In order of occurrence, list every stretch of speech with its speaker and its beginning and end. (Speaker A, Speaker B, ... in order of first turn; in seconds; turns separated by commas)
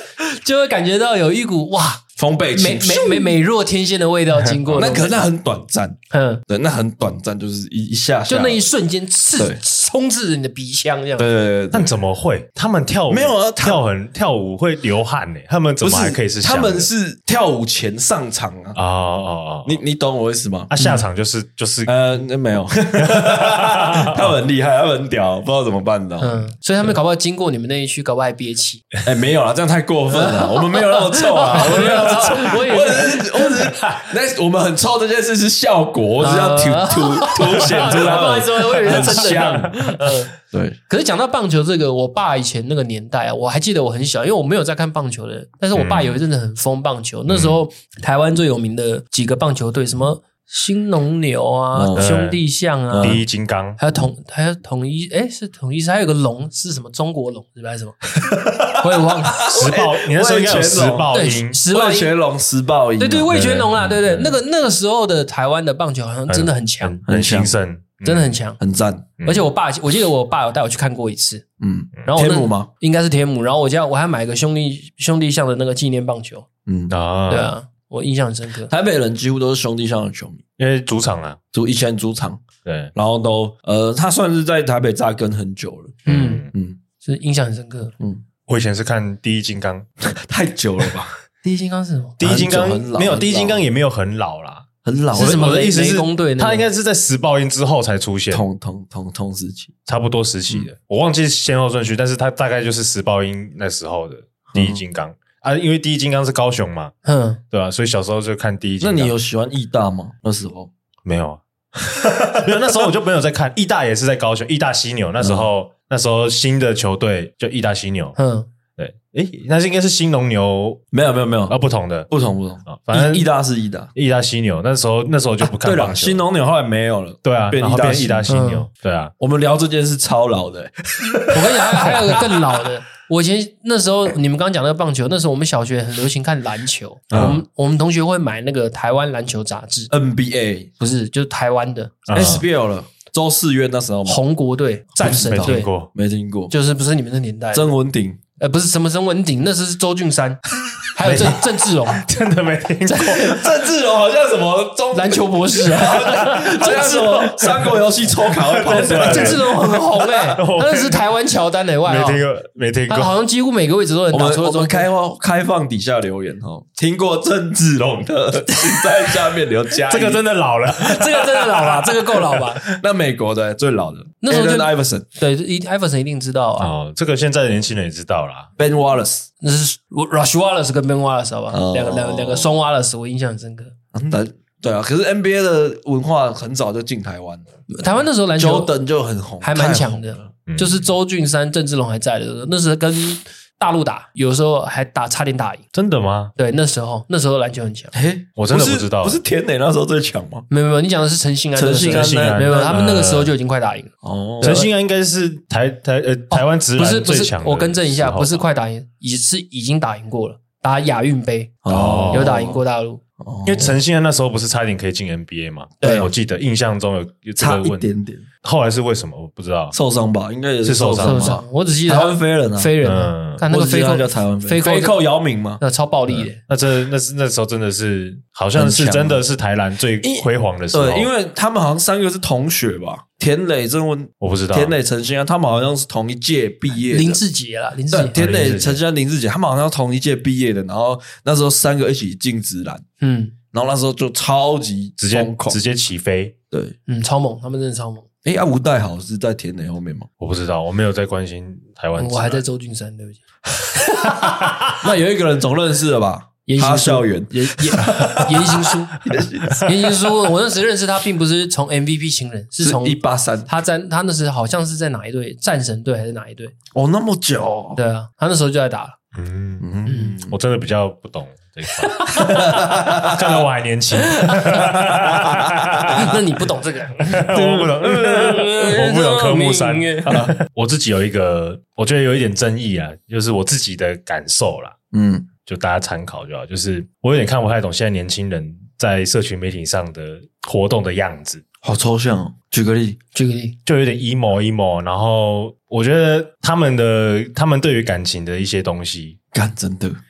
Speaker A: 0.4-2.0, Speaker B: 2.1-3.4, Speaker A: 2.5-5.2, Speaker C: 4.4-4.8, Speaker B: 4.7-8.6, Speaker A: 6.1-6.4, Speaker A: 8.3-11.3, Speaker B: 11.2-12.0, Speaker C: 11.7-16.9, Speaker B: 13.1-13.8, Speaker B: 15.8-18.8, Speaker C: 18.7-19.8, Speaker B: 19.6-20.7, Speaker C: 20.7-21.9, Speaker A: 20.8-21.0, Speaker B: 21.9-26.5, Speaker C: 23.0-24.3, Speaker A: 26.2-28.8, Speaker B: 29.0-40.8, Speaker A: 30.1-33.5, Speaker C: 31.4-32.5, Speaker A: 36.2-40.3, Speaker C: 38.9-39.5, Speaker A: 40.9-53.2, Speaker C: 45.7-46.2, Speaker C: 47.3-47.6, Speaker B: 51.7-52.1, Speaker C: 51.9-52.4, Speaker B: 52.9-53.2, Speaker C: 52.9-53.8, Speaker A: 53.8-58.0, Speaker A: 58.6-59.6, Speaker B: 59.4-61.2, Speaker C: 59.4-61.6, Speaker A: 61.1-62.1, Speaker B: 61.7-63.3, Speaker A: 63.0-67.0, Speaker C: 63.3-64.4, Speaker C: 66.3-68.4, Speaker B: 67.0-67.6, Speaker A: 68.0-68.6, Speaker B: 68.6-69.1, Speaker C: 69.2-69.5, Speaker A: 69.2-71.4, Speaker B: 71.6-72.7, Speaker A: 72.0-76.5, Speaker B: 76.7-76.9, Speaker C: 76.9-77.5, Speaker A: 77.3-78.7, Speaker B: 78.7-80.4, Speaker C: 80.6-81.4, Speaker B: 81.5-82.4, Speaker C: 82.6-82.9, Speaker B: 82.9-86.8, Speaker C: 86.0-86.5, Speaker A: 86.1-86.4, Speaker A: 87.0-87.9, Speaker C: 88.5-89.9, Speaker B: 90.0-91.1, Speaker A: 91.4-92.2, Speaker C: 92.2-98.4, Speaker B: 92.2-93.6, Speaker B: 94.8-95.6, Speaker A: 95.1-96.7, Speaker B: 98.3-99.7, Speaker C: 99.9-106.9, Speaker B: 104.5-104.8, Speaker A: 107.0-107.4, Speaker C: 107.5-109.1, Speaker B: 108.8-110.7, Speaker C: 111.0-111.4, Speaker B: 111.9-112.5, Speaker C: 112.0-118.2, Speaker B: 115.2-115.5, Speaker A: 118.2-118.5, Speaker C: 118.8-120.8, Speaker B: 120.9-121.6, Speaker C: 121.5-122.1, Speaker B: 122.1-123.9, Speaker C: 122.7-123.2, Speaker C: 123.9-126.2, Speaker B: 125.4-128.3, Speaker C: 127.2-129.1, Speaker A: 128.3-128.7, Speaker B: 129.2-132.2, Speaker A: 131.3-139.9, Speaker C: 137.1-137.4, Speaker B: 139.9-140.7, Speaker A: 140.8-142.0, Speaker C: 142.1-142.4, Speaker B: 142.1-144.2, Speaker A: 144.1-145.7, Speaker C: 145.0-145.9, Speaker B: 145.0-146.5, Speaker A: 146.5-147.7, Speaker B: 147.5-148.2, Speaker A: 148.4-150.4, Speaker A: 150.9-152.0, Speaker C: 151.0-153.5, Speaker A: 152.9-153.2, Speaker B: 152.9-159.8, Speaker A: 154.9-157.4, Speaker C: 156.2-157.7, Speaker C: 158.3-161.1, Speaker A: 158.7-162.2, Speaker C: 161.8-163.1, Speaker A: 162.9-164.9, Speaker B: 164.1-170.2, Speaker C: 169.8-172.4, Speaker A: 170.8-172.6, Speaker B: 172.6-175.0, Speaker A: 174.2-176.7, Speaker C: 176.6-178.5, Speaker B: 178.6-179.3, Speaker A: 179.4-183.7, Speaker B: 181.5-182.5, Speaker B: 183.9-187.5, Speaker A: 187.7-188.7, Speaker B: 188.4-190.3, Speaker A: 189.4-195.6, Speaker C: 190.5-190.8, Speaker C: 195.7-196.3, Speaker A: 196.3-197.9, Speaker B: 197.9-200.5, Speaker C: 198.4-199.2, Speaker A: 200.5-204.7, Speaker B: 201.5-202.7, Speaker C: 201.8-203.3, Speaker B: 204.0-204.7, Speaker C: 204.4-208.4, Speaker A: 206.3-213.0, Speaker B: 211.6-212.6, Speaker C: 211.7-212.4, Speaker B: 213.2-213.8, Speaker C: 213.4-217.9, Speaker B: 215.8-216.1, Speaker A: 215.8-216.1, Speaker B: 217.4-218.2, Speaker C: 218.4-219.8, Speaker B: 219.7-222.7, Speaker C: 220.6-221.4, Speaker A: 221.0-225.0, Speaker C: 222.8-223.4, Speaker B: 223.5-226.2, Speaker A: 225.6-226.4, Speaker C: 226.5-231.1, Speaker B: 228.5-229.2, Speaker B: 230.0-237.2, Speaker C: 234.2-234.7, Speaker A: 236.9-238.1, Speaker B: 237.9-242.8, Speaker C: 238.1-238.8, Speaker A: 243.0-243.3, Speaker B: 243.5-245.6, Speaker C: 245.0-246.3, Speaker B: 246.5-246.8, Speaker A: 246.9-248.1, Speaker B: 248.2-250.1, Speaker C: 250.2-252.4, Speaker A: 252.0-254.2, Speaker C: 253.9-254.8, Speaker B: 254.8-260.1, Speaker A: 256.5-258.9, Speaker C: 259.1-259.6, Speaker A: 259.6-266.5, Speaker B: 262.6-263.5, Speaker B: 266.7-267.8, Speaker A: 267.8-268.9, Speaker C: 269.1-276.1, Speaker B: 269.6-270.4, Speaker A: 269.9-270.1, Speaker A: 271.9-272.5, Speaker B: 272.1-273.4, Speaker A: 274.2-274.6, Speaker B: 274.5-276.0, Speaker A: 275.8-277.5, Speaker C: 277.0-284.7, Speaker B: 277.3-279.4, Speaker A: 278.1-280.2, Speaker B: 280.0-280.3, Speaker B: 284.9-285.3, Speaker C: 285.4-291.4, Speaker B: 291.6-293.0, Speaker A: 293.1-293.6, Speaker C: 293.6-299.2, Speaker B: 299.3-300.0